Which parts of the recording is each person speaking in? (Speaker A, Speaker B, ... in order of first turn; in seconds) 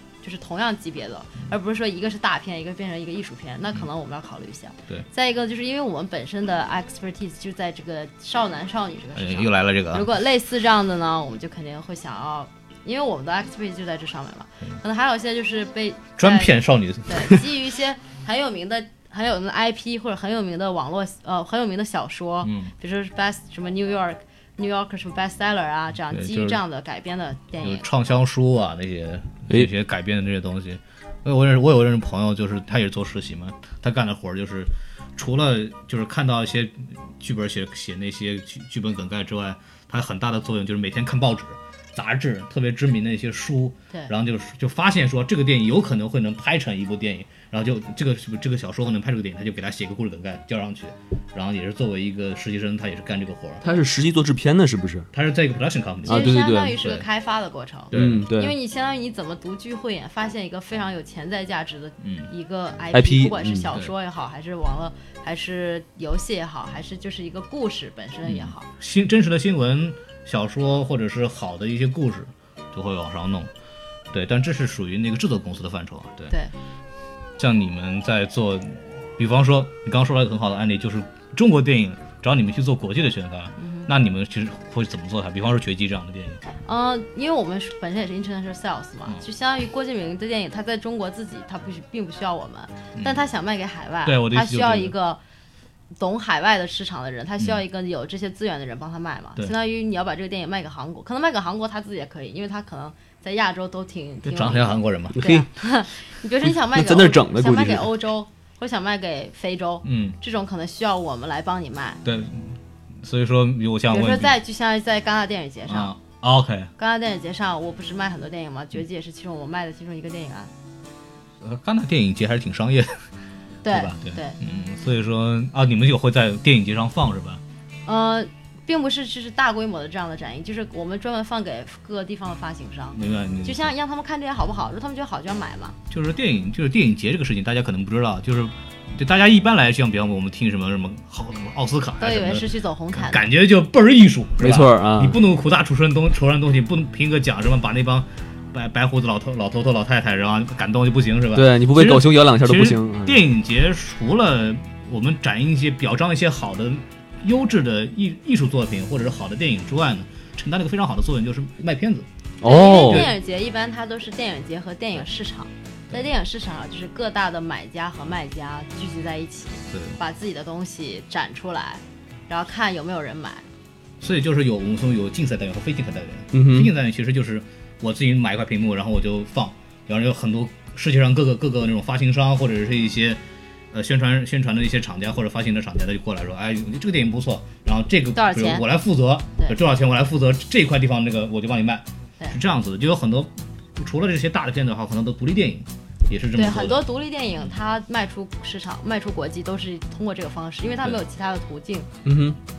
Speaker A: 0.2-16.5, 17.1-27.9, 56.1-68.7, 83.6-83.9, 86.6-95.2, 96.0-112.0, 113.9-115.9, 116.8-120.5, 123.6-124.4, 127.8-135.8, 142.0-143.2, 162.4-173.5, 188.1-188.7, 196.3-201.9
Speaker B: 9.2-10.1, 16.2-17.4, 22.4-22.7, 26.1-26.6, 27.6-53.6, 55.1-57.0, 57.9-58.2, 62.0-62.3, 68.2-73.5, 74.1-76.3, 77.4-86.4, 93.0-93.2, 94.0-94.9, 104.2-105.2, 109.8-110.2, 112.0-114.3, 115.7-116.7, 121.4-123.0, 123.7-127.4, 132.9-133.7, 135.9-162.1, 162.8-163.1, 169.7-170.0, 174.0-183.2, 183.7-196.8
Speaker C: 53.6-55.1, 56.0-56.8, 57.9-58.5, 62.9-63.7, 105.1-105.5, 106.4-107.9, 144.4-145.2, 151.3-153.2, 162.4-163.1, 176.3-176.7, 202.0-202.4